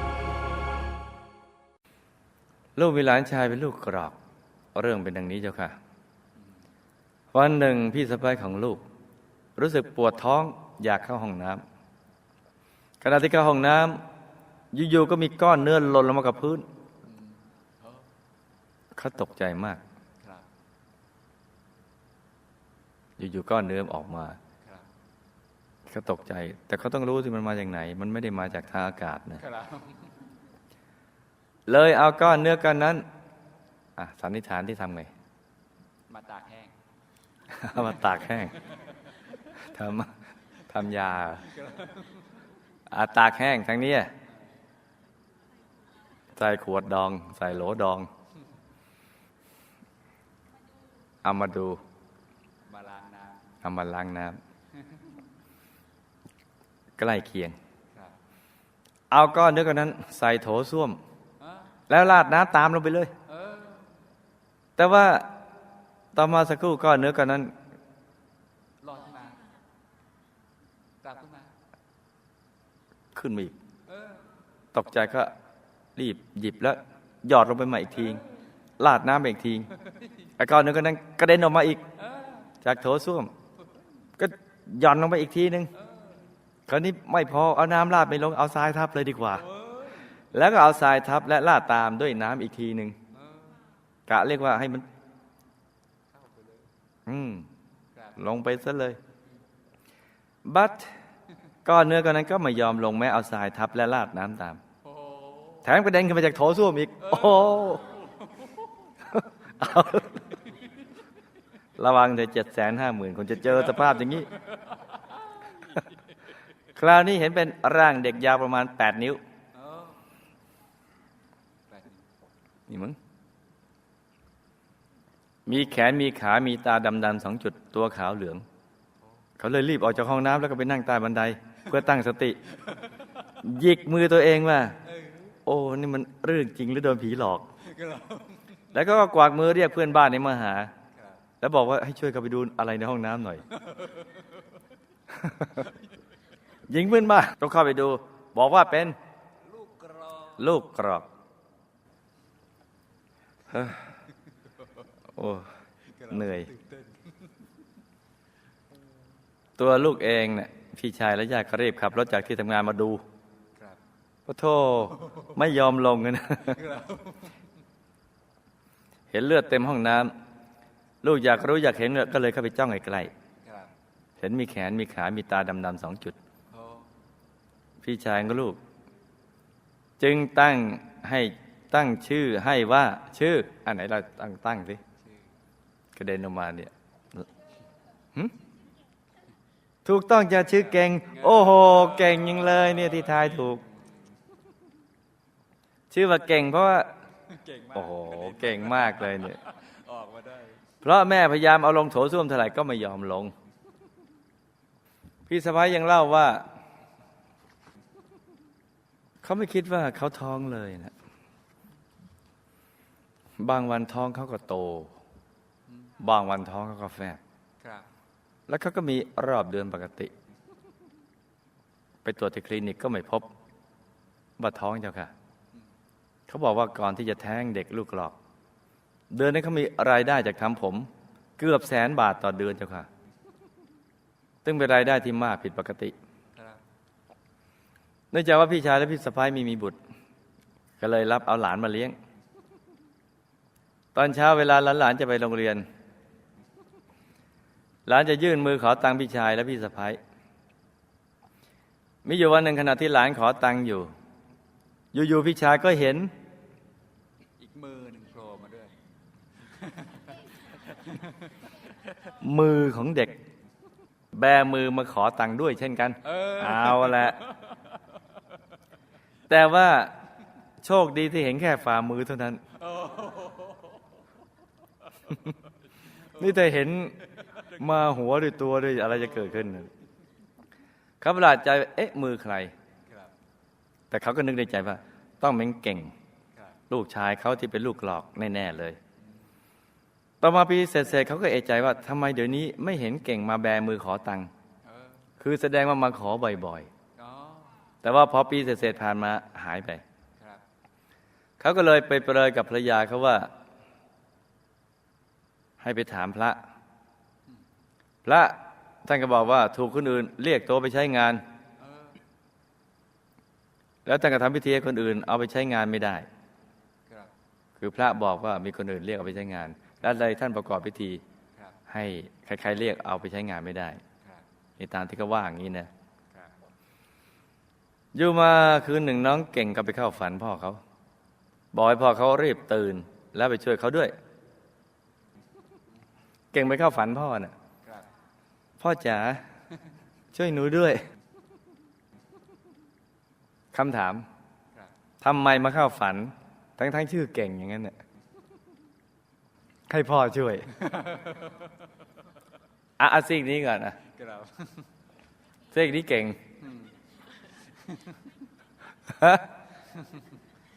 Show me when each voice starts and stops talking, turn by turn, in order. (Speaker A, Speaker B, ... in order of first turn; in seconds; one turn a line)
Speaker A: 2.8-4.2
Speaker A: 4.8-5.8
Speaker A: 7.3-8.8
Speaker A: 9.6-11.6
Speaker A: 13.0-14.1
Speaker A: 14.7-16.6
Speaker A: 19.0-19.8
Speaker A: 23.2-24.4
Speaker A: 25.9-29.4
Speaker B: 29.4-30.1
Speaker A: 31.7-33.1
Speaker A: 34.0-35.1
Speaker B: 36.1-36.7
Speaker A: 37.5-38.6
Speaker A: 39.6-40.1
Speaker A: 40.7-41.5
Speaker B: 41.5-42.2
Speaker A: 42.9-44.1
Speaker A: 46.4-48.1
Speaker A: 51.2-51.8
Speaker B: 52.7-53.4
Speaker A: 53.6-54.4
Speaker A: 57.0-57.6
Speaker A: 59.1-61.0
Speaker B: 61.4-61.7
Speaker A: 61.9-63.1
Speaker B: 63.3-63.9
Speaker A: 64.8-65.3
Speaker A: 66.2-67.5
Speaker B: 68.8-69.5
Speaker B: 71.0-71.5
Speaker A: 73.1-73.6
Speaker A: 74.7-75.3
Speaker A: 76.0-78.2
Speaker A: 78.8-79.7
Speaker A: 80.4-81.8
Speaker A: 82.6-83.3
Speaker A: 84.2-85.7
Speaker A: 86.7-89.5
Speaker B: 89.6-90.0
Speaker A: 90.3-93.0
Speaker A: 94.1-94.9
Speaker B: 96.1-96.7
Speaker A: 97.1-97.5
Speaker A: 98.2-99.0
Speaker A: 100.5-100.9
Speaker A: 101.7-104.6
Speaker B: 104.9-105.6
Speaker A: 105.6-107.9
Speaker B: 107.2-108.7
Speaker A: 109.1-110.2
Speaker A: 111.8-114.3
Speaker B: 113.5-116.0
Speaker A: 116.8-119.2
Speaker B: 119.5-120.0
Speaker B: 121.7-122.0
Speaker A: 122.7-123.0
Speaker A: 125.5-128.4
Speaker A: 129.4-132.4
Speaker A: 133.4-134.8
Speaker A: 135.5-137.5
Speaker B: 137.6-138.4
Speaker A: 138.7-140.7
Speaker A: 141.4-143.4
Speaker B: 143.6-144.2
Speaker A: 145.1-145.6
Speaker A: 146.7-149.0
Speaker B: 149.5-150.4
Speaker A: 150.4-151.1
Speaker A: 153.5-153.9
Speaker A: 155.2-155.5
Speaker B: 156.0-157.1
Speaker A: 156.1-156.5
Speaker A: 159.6-163.0
Speaker A: 164.3-166.6
Speaker B: 166.5-167.3
Speaker A: 169.1-170.1
Speaker A: 171.0-173.1
Speaker B: 173.4-173.7
Speaker A: 174.2-176.2
Speaker B: 176.5-176.9
Speaker A: 177.8-178.6
Speaker A: 180.0-184.8
Speaker A: 186.0-186.7
Speaker A: 189.8-193.6
Speaker B: 190.9-193.6
Speaker A: 195.9-196.9
Speaker B: 197.3-200.6
Speaker A: 197.7-199.4
Speaker A: 200.8-203.3
Speaker A: 205.3-206.5
Speaker A: 209.2-210.9
Speaker A: 213.4-215.0
Speaker A: 216.0-217.2
Speaker B: 217.6-217.9
Speaker A: 218.5-220.1
Speaker A: 222.0-223.3
Speaker A: 224.4-225.1
Speaker A: 226.3-228.2
Speaker A: 229.1-232.9
Speaker A: 234.4-235.9
Speaker B: 236.3-236.6
Speaker A: 238.1-239.8
Speaker A: 240.8-242.0
Speaker A: 243.9-245.7
Speaker A: 247.9-250.0
Speaker A: 252.1-253.9
Speaker A: 254.9-256.1
Speaker B: 257.4-258.8
Speaker B: 259.6-261.3
Speaker A: 262.2-263.2
Speaker A: 264.1-267.2
Speaker B: 266.1-267.6
Speaker A: 269.3-269.9
Speaker A: 270.6-272.4
Speaker B: 272.6-273.7
Speaker A: 276.1-277.0
Speaker B: 277.2-277.6
Speaker A: 277.6-279.7
Speaker A: 281.0-282.5
Speaker A: 283.9-285.9
Speaker A: 286.7-288.8
Speaker A: 290.2-294.3
Speaker B: 294.6-295.0
Speaker A: 295.2-296.7
Speaker B: 297.0-297.6
Speaker A: 297.8-299.8
Speaker A: 301.4-303.3
Speaker A: 305.6-306.4
Speaker A: 308.1-311.2
Speaker B: 311.6-312.0
Speaker A: 313.9-316.1
Speaker A: 317.6-321.0
Speaker A: 321.7-323.8
Speaker A: 324.6-325.7
Speaker A: 327.9-330.6
Speaker A: 331.5-333.9
Speaker A: 336.3-337.3
Speaker A: 338.6-339.2
Speaker A: 340.1-340.9
Speaker A: 343.5-344.1
Speaker A: 345.0-347.8
Speaker A: 349.7-350.6
Speaker B: 350.6-351.5
Speaker A: 352.8-353.8
Speaker B: 353.9-354.6
Speaker A: 355.5-356.2
Speaker B: 357.6-357.9
Speaker A: 358.9-359.3